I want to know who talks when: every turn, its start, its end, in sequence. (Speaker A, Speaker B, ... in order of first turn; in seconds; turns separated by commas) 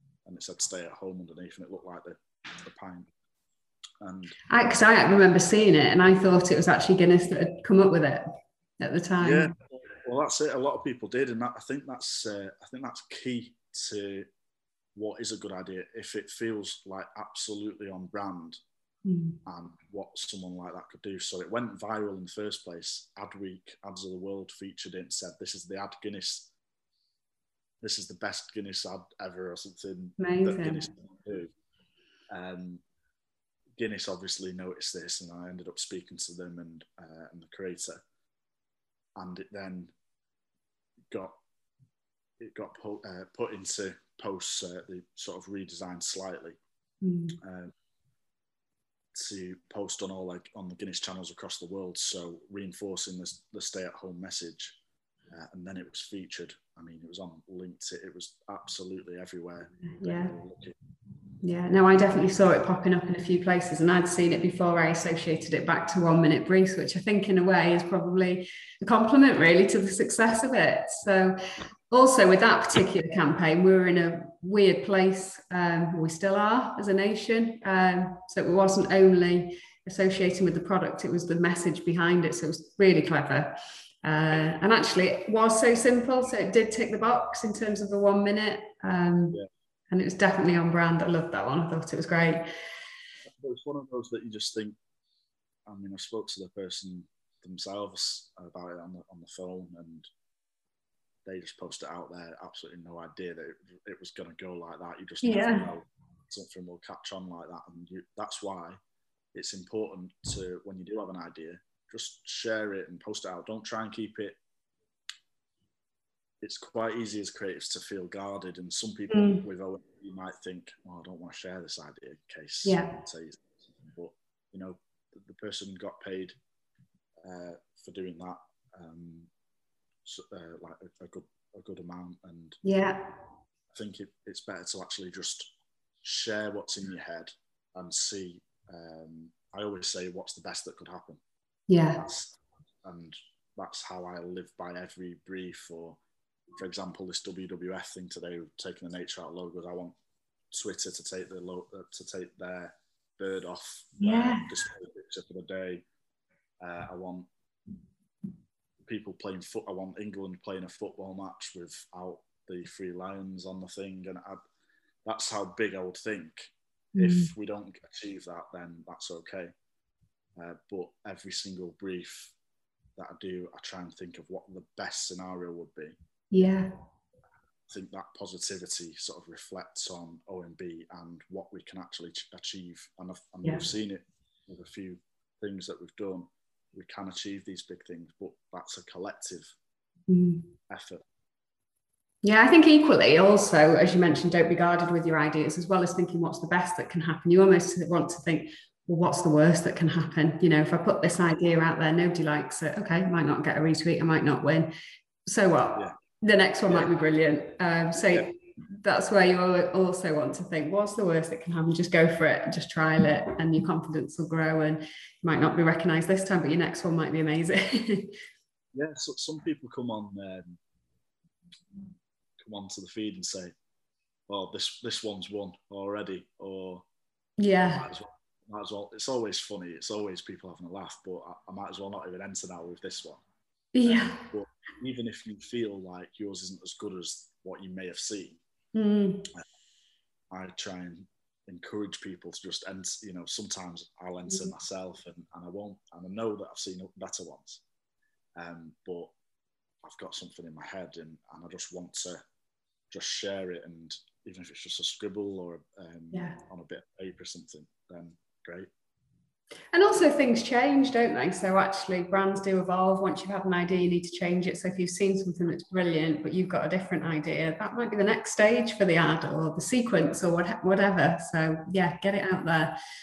Speaker A: 0.2-3.1, Speaker A: 4.0-4.4, Speaker B: 4.5-9.5, Speaker A: 9.2-14.3, Speaker A: 14.9-18.6, Speaker B: 19.0-19.4, Speaker A: 19.4-26.5, Speaker A: 27.8-31.5, Speaker B: 30.2-30.9, Speaker A: 32.3-32.8, Speaker A: 33.8-38.0, Speaker A: 39.1-39.9, Speaker A: 42.4-46.6, Speaker B: 47.0-47.4, Speaker A: 47.4-47.7, Speaker A: 49.1-54.8, Speaker A: 55.3-60.8, Speaker B: 59.8-60.3, Speaker B: 61.4-92.5, Speaker A: 93.3-94.8, Speaker A: 95.7-100.1, Speaker A: 101.2-108.8, Speaker B: 105.2-105.7, Speaker A: 109.3-114.4, Speaker A: 116.4-126.3, Speaker B: 119.1-119.4, Speaker B: 122.6-123.0, Speaker A: 127.2-129.3, Speaker A: 130.0-132.6, Speaker B: 132.6-133.1, Speaker A: 133.7-135.5, Speaker A: 136.0-141.2, Speaker B: 141.7-142.0, Speaker A: 142.0-146.0, Speaker A: 146.6-149.9, Speaker A: 150.5-155.8, Speaker B: 154.0-154.6, Speaker A: 156.6-157.3, Speaker A: 158.8-164.4, Speaker A: 165.0-169.5, Speaker B: 166.9-167.3, Speaker A: 170.3-172.3, Speaker A: 172.9-176.0, Speaker B: 176.3-176.7, Speaker A: 177.7-189.5, Speaker B: 190.1-190.5, Speaker A: 190.7-191.0, Speaker B: 192.2-204.7, Speaker B: 205.3-218.2, Speaker A: 218.7-220.6, Speaker A: 222.4-223.5, Speaker A: 224.3-226.8, Speaker B: 227.4-227.8, Speaker A: 227.6-233.2, Speaker B: 233.7-234.2, Speaker A: 233.8-238.4, Speaker B: 238.7-239.3, Speaker A: 240.3-247.6, Speaker A: 248.4-249.1, Speaker A: 249.8-252.2, Speaker A: 252.9-258.7, Speaker B: 256.1-256.4, Speaker B: 259.7-272.8